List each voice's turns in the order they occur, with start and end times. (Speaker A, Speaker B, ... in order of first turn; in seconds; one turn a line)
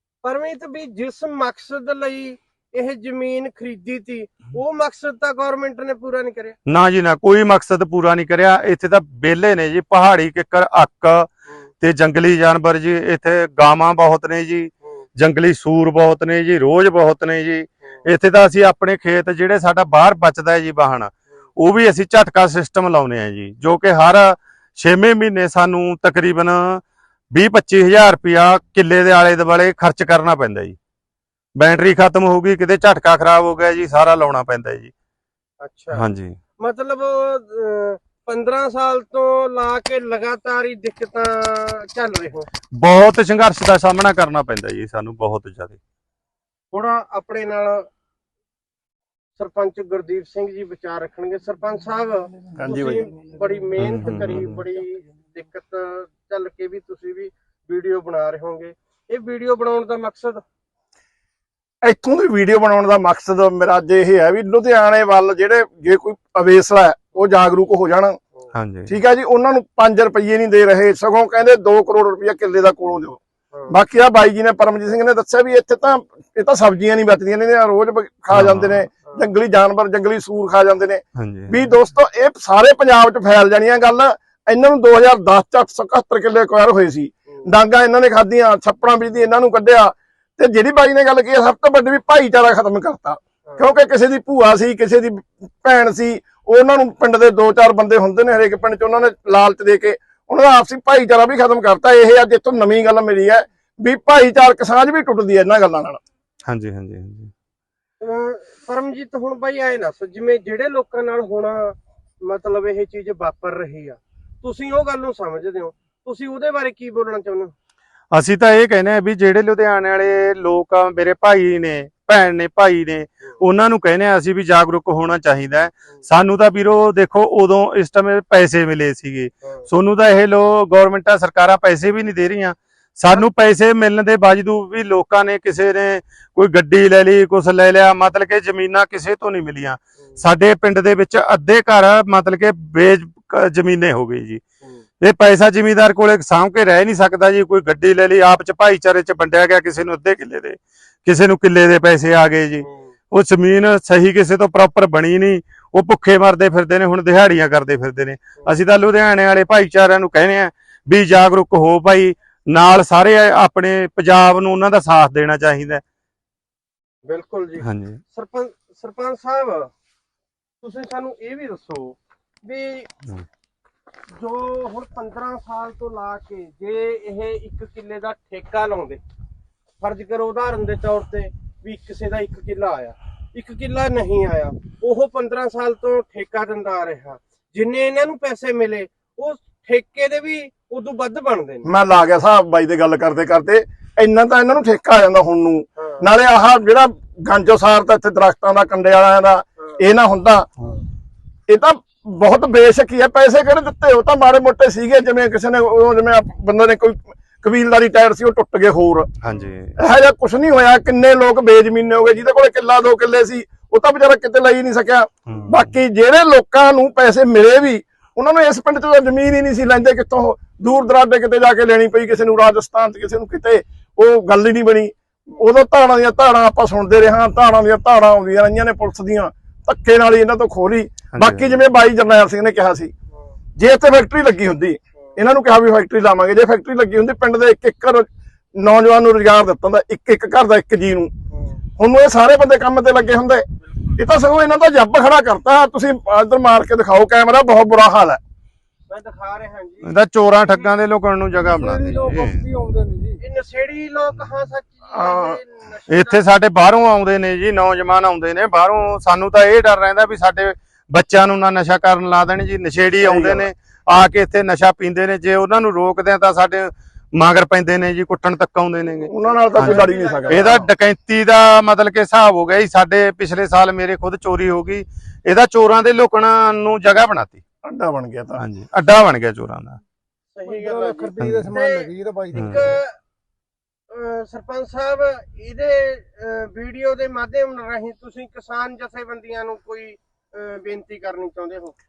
Speaker A: 0.2-6.6
Speaker B: 6.7-11.3
Speaker B: 11.8-30.8
Speaker B: 31.6-34.9
Speaker A: 35.6-36.0
Speaker B: 35.9-36.4
Speaker A: 36.6-42.5
Speaker B: 42.7-45.8
Speaker A: 46.7-47.9
Speaker A: 49.4-60.4
Speaker C: 52.6-53.1
Speaker B: 53.8-54.6
Speaker C: 61.8-68.2
Speaker B: 68.5-68.9
Speaker C: 68.9-73.2
Speaker A: 73.5-73.8
Speaker C: 73.7-106.0
Speaker B: 78.3-78.9
Speaker B: 81.2-81.6
Speaker B: 106.5-107.3
Speaker A: 108.0-117.5
Speaker B: 118.1-144.4
Speaker B: 145.0-165.8
Speaker A: 152.6-152.9
Speaker A: 167.1-169.7
Speaker B: 167.6-168.0
Speaker A: 170.6-172.9
Speaker A: 174.1-179.0
Speaker A: 179.8-191.7
Speaker C: 191.7-200.5
Speaker A: 195.8-196.1
Speaker C: 201.5-209.1
Speaker B: 209.2-209.8
Speaker C: 209.8-232.9
Speaker B: 215.3-215.8
Speaker B: 231.1-231.6
Speaker C: 233.6-241.1
Speaker A: 241.3-241.6
Speaker C: 241.8-243.4
Speaker A: 243.8-244.0
Speaker C: 244.0-248.2
Speaker A: 248.9-250.0
Speaker B: 249.8-252.4
Speaker D: 251.4-253.2
Speaker A: 253.2-256.2
Speaker C: 254.9-255.4
Speaker B: 255.9-277.4
Speaker C: 263.0-263.5
Speaker A: 269.1-270.7
Speaker C: 269.1-270.7
Speaker C: 277.6-278.4
Speaker B: 278.4-279.8
Speaker A: 280.3-283.0
Speaker D: 280.4-282.8
Speaker B: 281.2-281.5
Speaker B: 282.3-282.8
Speaker A: 283.9-291.7